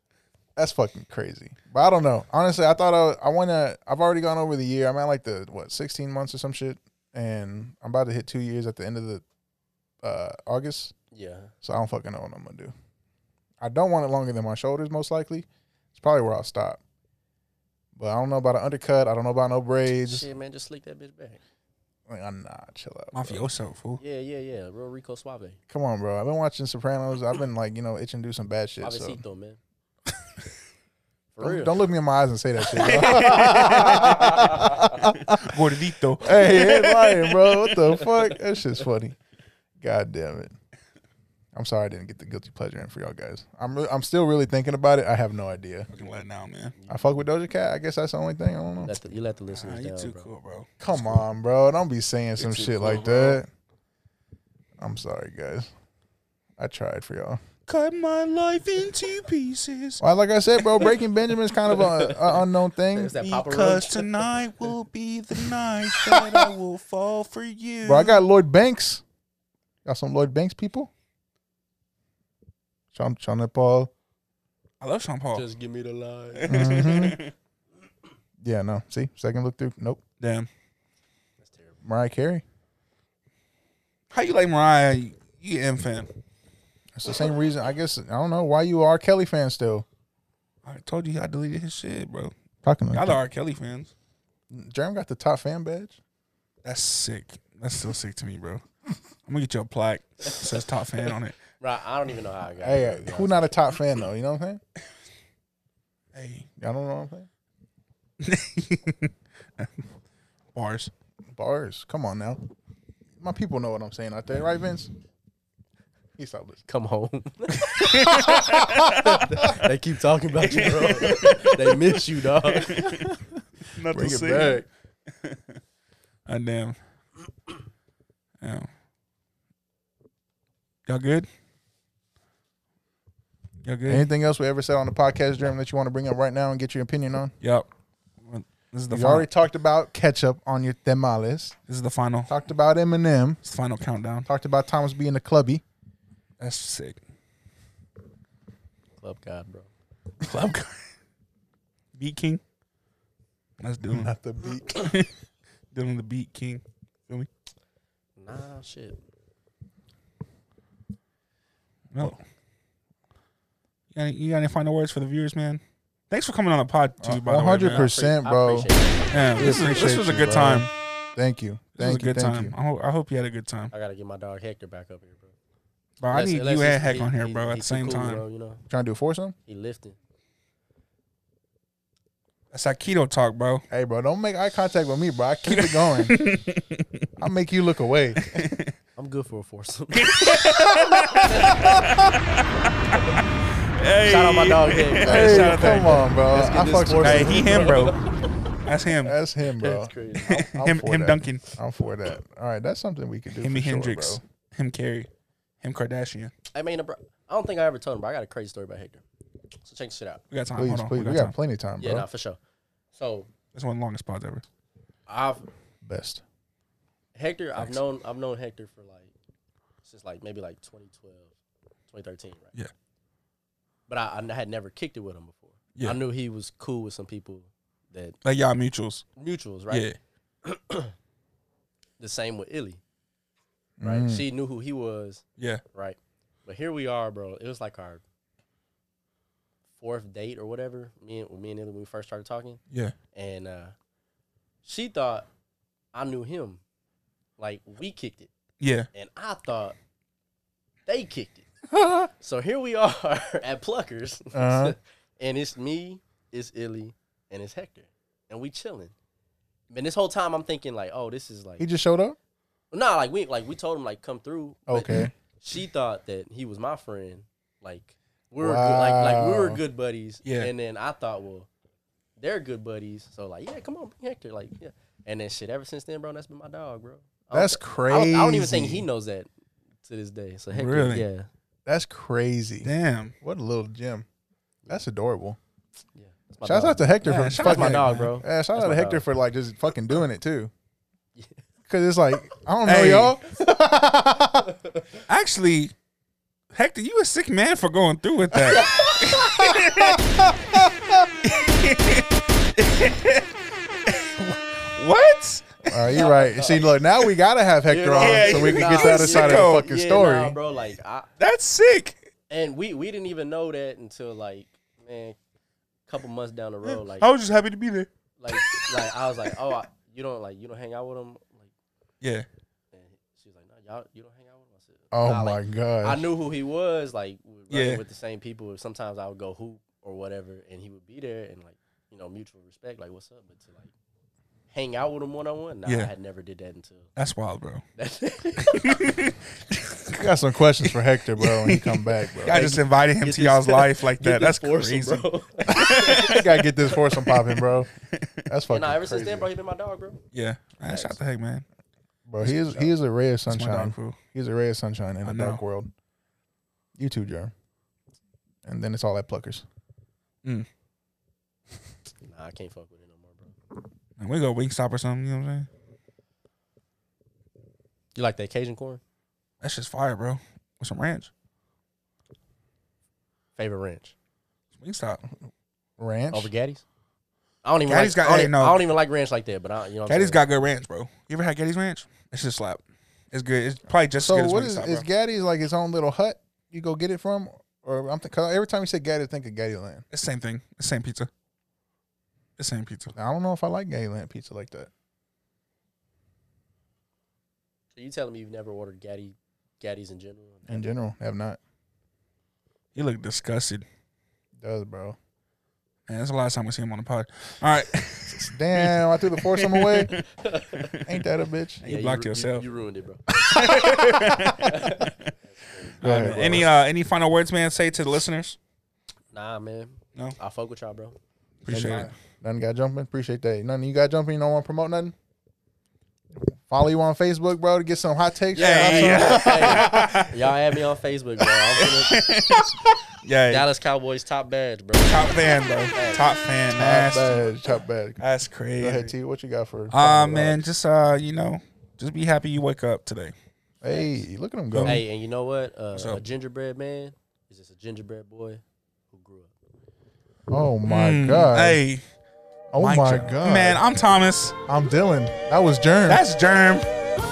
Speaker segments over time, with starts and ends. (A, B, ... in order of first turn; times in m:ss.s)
0:00.6-0:09.2 A
0:10.0-0:10.9 A
0:11.1-0:11.5 B
0:11.6-0:12.7 A
0:13.6-0:16.8 A
0:18.0-0:20.3 A
0:20.0-0:21.4 B
0:22.1-0:23.4 A
0:23.1-0:24.0 C
0:24.0-0:25.6 B
0:25.7-0:29.2 A
0:28.8-0:29.6 B
0:31.3-0:31.8 B
0:31.4-0:35.7 A
0:32.7-0:34.2 C
0:32.8-0:35.0 B
0:35.3-0:37.5 C
0:36.2-0:39.2 A
0:38.0-0:38.3 B
0:39.8-0:40.5 A
0:41.5-0:45.9 A
0:45.9-0:46.7 C
0:46.9-0:48.9 A
0:48.8-0:50.3 B
0:49.5-0:51.2 C
0:50.8-0:53.5 A
0:52.4-0:53.4 B
0:54.8-0:55.7 A
0:56.6-0:57.4 A
0:57.7-1:00.0 C
1:00.0-1:03.2 A
1:01.7-1:04.3 B
1:03.2-1:08.2 C
1:05.4-1:06.5 B
1:07.8-1:09.0 A
1:09.8-1:10.9 A
1:12.9-1:13.9 A
1:14.8-1:15.5 C
1:15.3-1:17.2 B
1:16.4-1:17.3 C
1:16.5-1:17.2 A
1:18.4-1:20.0 A
1:20.2-1:20.5 C
1:21.4-1:21.8 B
1:21.8-1:22.4 A
1:24.1-1:26.1 C
1:27.0-1:29.8 A
1:30.6-1:32.3 C
1:32.6-1:33.2 A
1:32.9-1:33.9 C
1:34.5-1:36.0 A
1:36.6-1:38.6 C
1:39.2-1:41.4 C
1:41.6-1:43.6 B
1:42.6-1:44.6 A
1:46.1-1:46.5 C
1:46.6-1:47.3 A
1:48.2-1:49.8 C
1:50.5-1:50.9 C
1:51.3-1:52.4 A
1:53.2-1:54.9 A
1:56.2-1:56.6 A
1:56.7-2:02.8 B
1:57.7-1:59.2 C
1:58.5-1:58.9 A
2:00.4-2:01.8 C
2:02.5-2:03.1 C
2:02.8-2:03.1 A
2:03.7-2:04.6 C
2:03.9-2:04.6 A
2:06.2-2:06.8 C
2:08.4-2:08.7 C
2:10.9-2:11.3 C
2:13.6-2:14.1 C
2:13.9-2:17.3 A
2:17.4-2:17.6 C
2:18.2-2:19.2 C
2:18.9-2:21.6 A
2:21.7-2:22.3 C
2:22.3-2:23.4 A
2:23.4-2:24.3 C
2:24.2-2:25.6 A
2:26.4-2:27.0 C
2:29.0-2:29.7 B
2:30.2-2:30.8 C
2:31.9-2:32.4 C
2:33.6-2:34.1 C
2:33.9-2:34.9 A
2:34.6-2:35.1 C
2:35.7-2:37.3 C
2:38.2-2:39.0 B
2:41.9-2:42.2 C
2:43.9-2:47.9 C
2:47.0-2:48.7 A
2:47.6-2:49.5 B
2:49.1-2:50.7 C
2:49.4-2:52.5 A
2:51.8-2:53.7 C
2:53.7-2:55.3 B
2:56.0-2:58.2 C
2:56.1-2:58.6 B
2:58.7-2:59.3 A
2:59.4-3:00.0 B
3:02.5-3:03.6 C
3:03.7-3:06.2 A
3:05.5-3:06.8 C
3:07.2-3:08.6 A
3:08.2-3:08.7 C
3:09.0-3:12.1 B
3:09.9-3:12.4 C
3:13.7-3:16.0 C
3:14.0-3:18.3 B
3:15.0-3:17.6 A
3:17.0-3:18.0 C
3:18.6-3:19.1 C
3:19.0-3:24.2 A
3:19.6-3:20.4 B
3:20.2-3:21.4 C
3:23.4-3:25.1 C
3:25.6-3:26.3 C
3:26.5-3:29.0 B
3:29.6-3:30.2 B
3:30.3-3:31.3 C
3:30.6-3:32.1 A
3:31.8-3:32.4 B
3:32.9-3:33.3 B
3:33.5-3:34.4 C
3:35.1-3:35.5 B
3:35.8-3:36.2 A
3:37.1-3:39.1 B
3:39.8-3:41.3 B
3:41.9-3:42.5 B
3:43.9-3:48.2 B
3:48.2-3:49.0 C
3:49.2-3:49.9 B
3:49.7-3:50.0 C
3:50.4-3:50.9 B
3:52.0-3:52.8 B
3:53.8-3:54.2 A
3:53.8-3:58.0 B
3:59.8-4:02.6 B
4:03.1-4:03.7 B
4:04.6-4:05.3 B
4:05.9-4:06.6 B
4:07.4-4:08.3 B
4:08.6-4:08.9 C
4:08.9-4:09.8 B
4:10.9-4:11.5 B
4:12.2-4:18.9 B
4:14.3-4:14.8 A
4:19.7-4:21.6 B
4:21.6-4:22.2 A
4:22.7-4:31.5 B
4:24.7-4:25.1 A
4:28.4-4:29.6 A
4:30.2-4:30.5 C
4:32.2-4:39.3 B
4:37.3-4:38.8 A
4:39.8-4:41.3 B
4:40.5-4:41.0 C
4:41.6-4:44.0 A
4:42.6-4:43.1 C
4:44.7-4:45.4 A
4:45.9-4:49.0 B
4:46.4-4:50.5 A
4:47.0-4:48.1 C
4:51.2-4:51.4 B
4:51.6-4:54.5 A
4:52.6-4:53.2 C
4:54.5-4:54.8 B
4:55.1-4:55.7 C
4:56.5-5:00.3 C
4:58.5-4:59.7 B
4:59.8-5:01.1 A
5:01.2-5:05.7 C
5:05.6-5:10.4 A
5:05.8-5:06.7 B
5:07.7-5:11.1 B
5:08.0-5:09.6 C
5:11.2-5:12.0 C
5:12.3-5:15.2 B
5:15.9-5:17.1 B
5:16.7-5:19.3 C
5:18.2-5:21.5 B
5:22.0-5:22.2 C
5:22.7-5:33.7 B
5:24.9-5:26.0 A
5:27.5-5:27.8 C
5:34.5-5:36.9 B
5:37.0-5:37.6 C
5:37.8-5:39.1 B
5:38.4-5:40.0 C
5:39.9-5:42.6 A
5:41.2-5:46.3 C
5:43.0-5:46.7 B
5:45.9-5:47.7 A
5:47.0-5:47.3 C
5:47.9-5:48.2 C
5:48.3-5:49.3 A
5:48.5-5:50.0 B
5:50.1-5:51.4 C
5:50.6-5:51.0 B
5:52.0-5:55.7 A
5:52.2-5:52.7 C
5:53.2-5:54.0 C
5:55.0-5:55.4 C
5:56.8-5:57.3 A
5:58.4-5:59.4 A
6:02.0-6:03.3 B
6:04.0-6:05.5 C
6:07.9-6:08.8 B
6:09.4-6:11.1 C
6:13.4-6:13.9 B
6:14.6-6:15.0 C
6:15.8-6:16.3 A
6:16.1-6:16.6 B
6:17.4-6:20.2 B
6:17.7-6:18.7 C
6:19.9-6:24.8 C
6:24.0-6:29.8 A
6:29.9-6:31.1 C
6:32.4-6:32.9 C
6:32.9-6:34.7 A
6:37.7-6:40.6 B
6:40.5-6:41.4 A
6:42.7-6:43.6 C
6:44.4-6:45.0 A
6:45.9-6:50.0 C
6:48.2-6:50.0 A
6:50.0-6:50.7 B
6:50.6-6:50.9 C
6:50.8-6:51.6 A
6:51.6-6:52.4 C
6:51.6-6:56.4 B
6:53.1-6:55.1 C
6:55.8-6:58.4 C
6:55.8-6:56.5 A
6:59.1-7:01.0 B
7:01.4-7:01.9 C
7:01.5-7:04.9 A
7:01.5-7:01.9 B
7:06.4-7:10.0 A
7:08.3-7:10.3 C
7:08.3-7:12.0 B
7:11.6-7:13.5 C
7:13.3-7:15.2 B
7:14.8-7:17.2 C
7:15.7-7:16.0 B
7:16.6-7:18.0 A
7:18.0-7:18.9 C
7:18.6-7:20.4 A
7:19.7-7:23.1 C
7:23.6-7:24.8 A
7:23.6-7:24.0 B
7:24.5-7:24.8 C
7:24.6-7:29.3 B
7:25.7-7:26.0 C
7:30.3-7:31.6 A
7:30.6-7:31.8 C
7:32.5-7:33.6 A
7:32.6-7:34.4 C
7:34.5-7:36.0 A
7:35.9-7:36.7 C